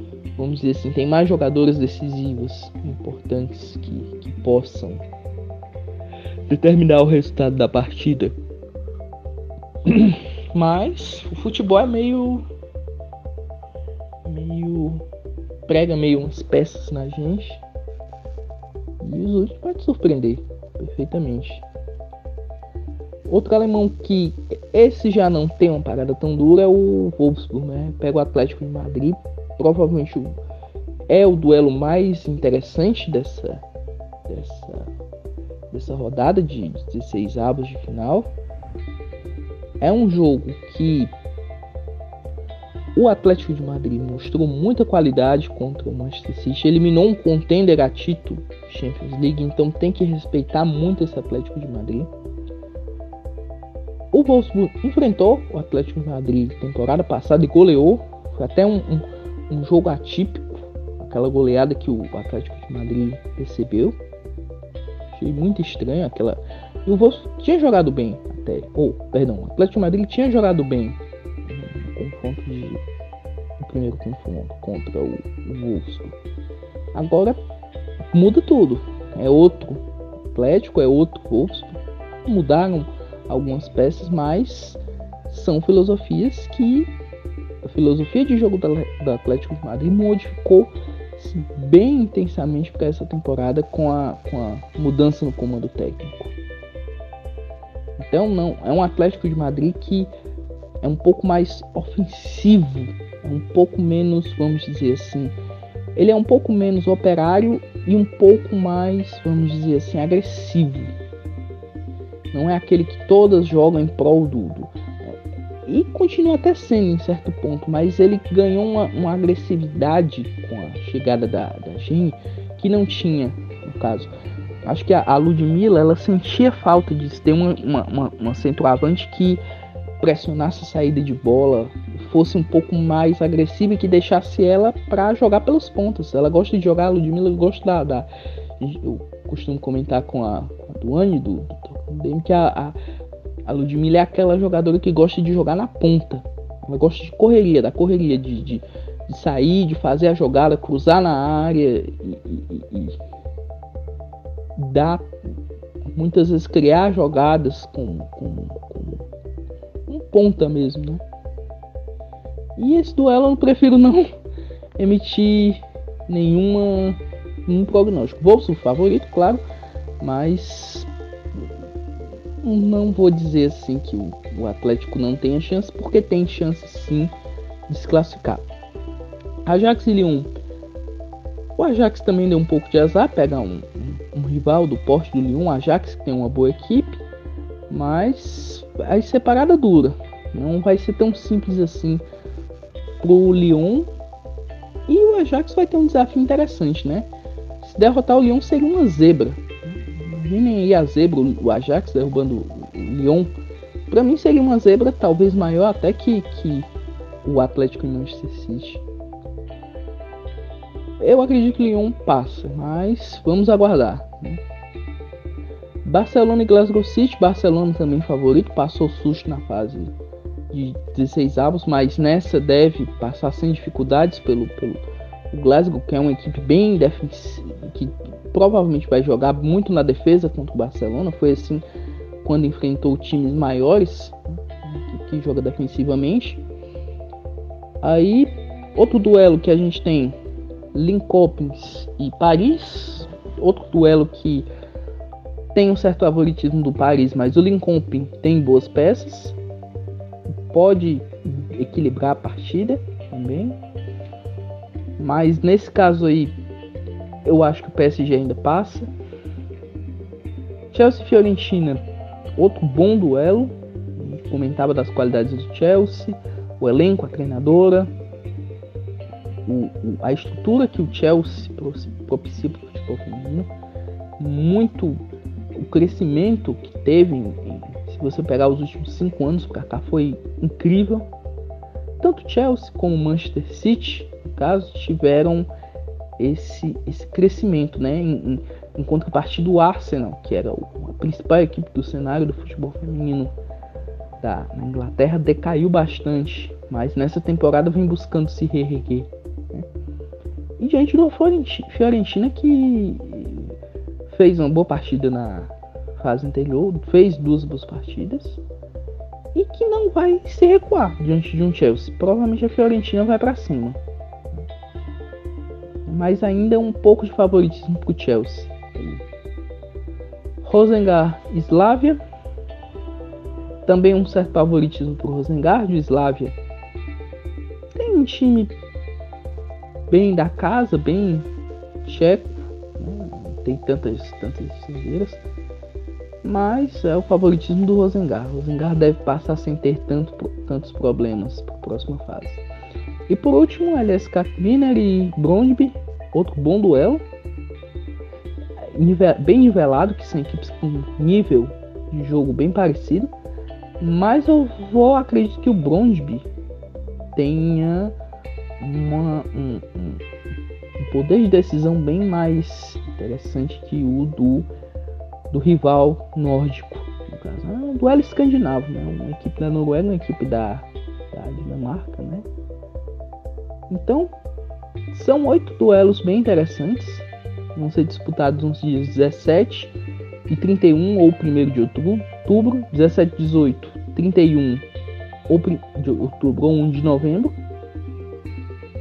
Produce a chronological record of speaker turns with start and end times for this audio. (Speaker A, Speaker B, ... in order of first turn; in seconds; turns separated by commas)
Speaker A: 0.4-5.0, Speaker A: 6.5-8.3, Speaker A: 9.8-12.5, Speaker A: 14.2-15.1, Speaker A: 15.7-17.6, Speaker A: 19.0-21.6, Speaker A: 23.3-30.4, Speaker A: 31.1-33.6, Speaker A: 34.3-34.9, Speaker A: 35.7-38.3, Speaker A: 39.8-41.1, Speaker A: 43.0-52.1, Speaker A: 54.1-64.0, Speaker A: 65.1-72.8, Speaker A: 73.6-76.2, Speaker A: 76.9-77.4, Speaker A: 78.1-86.9, Speaker A: 87.6-96.3, Speaker A: 98.0-100.1, Speaker A: 100.8-105.3, Speaker A: 106.0-110.9, Speaker A: 112.3-129.4, Speaker A: 130.0-142.8, Speaker A: 143.5-153.0, Speaker A: 154.6-155.1, Speaker A: 155.9-159.1, Speaker A: 159.9-161.0, Speaker A: 162.6-164.1, Speaker A: 164.8-169.4, Speaker A: 170.0-171.5, Speaker A: 172.4-177.1, Speaker A: 177.7-178.4, Speaker A: 179.4-180.3, Speaker A: 181.6-187.0, Speaker A: 187.7-192.0, Speaker A: 193.0-193.9, Speaker A: 194.9-197.1, Speaker A: 197.6-203.3, Speaker A: 203.9-206.7, Speaker A: 207.2-208.8, Speaker A: 211.0-214.4, Speaker A: 215.8-219.9, Speaker A: 220.5-231.6, Speaker A: 232.2-236.4, Speaker A: 237.8-240.2, Speaker A: 240.7-244.5, Speaker A: 245.5-249.4, Speaker A: 250.5-253.6, Speaker A: 255.0-256.4, Speaker A: 257.2-258.9, Speaker A: 260.7-261.8, Speaker A: 262.4-267.9, Speaker A: 269.5-273.5, Speaker A: 274.2-275.0, Speaker A: 275.5-281.1, Speaker A: 282.0-285.5, Speaker A: 286.2-293.3, Speaker A: 294.2-299.7, Speaker A: 300.6-303.6, Speaker A: 304.1-308.4, Speaker A: 309.3-313.8, Speaker A: 315.9-319.0, Speaker A: 320.4-322.0, Speaker A: 323.6-326.4, Speaker A: 327.7-328.5, Speaker A: 329.9-331.3, Speaker A: 331.8-335.2, Speaker A: 336.2-342.4, Speaker A: 343.1-347.0, Speaker A: 348.6-353.1, Speaker A: 353.8-356.3, Speaker A: 357.1-357.9, Speaker A: 358.6-360.0, Speaker A: 360.8-364.5, Speaker A: 365.3-372.3, Speaker A: 373.7-374.1, Speaker A: 374.9-379.8, Speaker A: 380.3-384.6, Speaker A: 385.3-387.4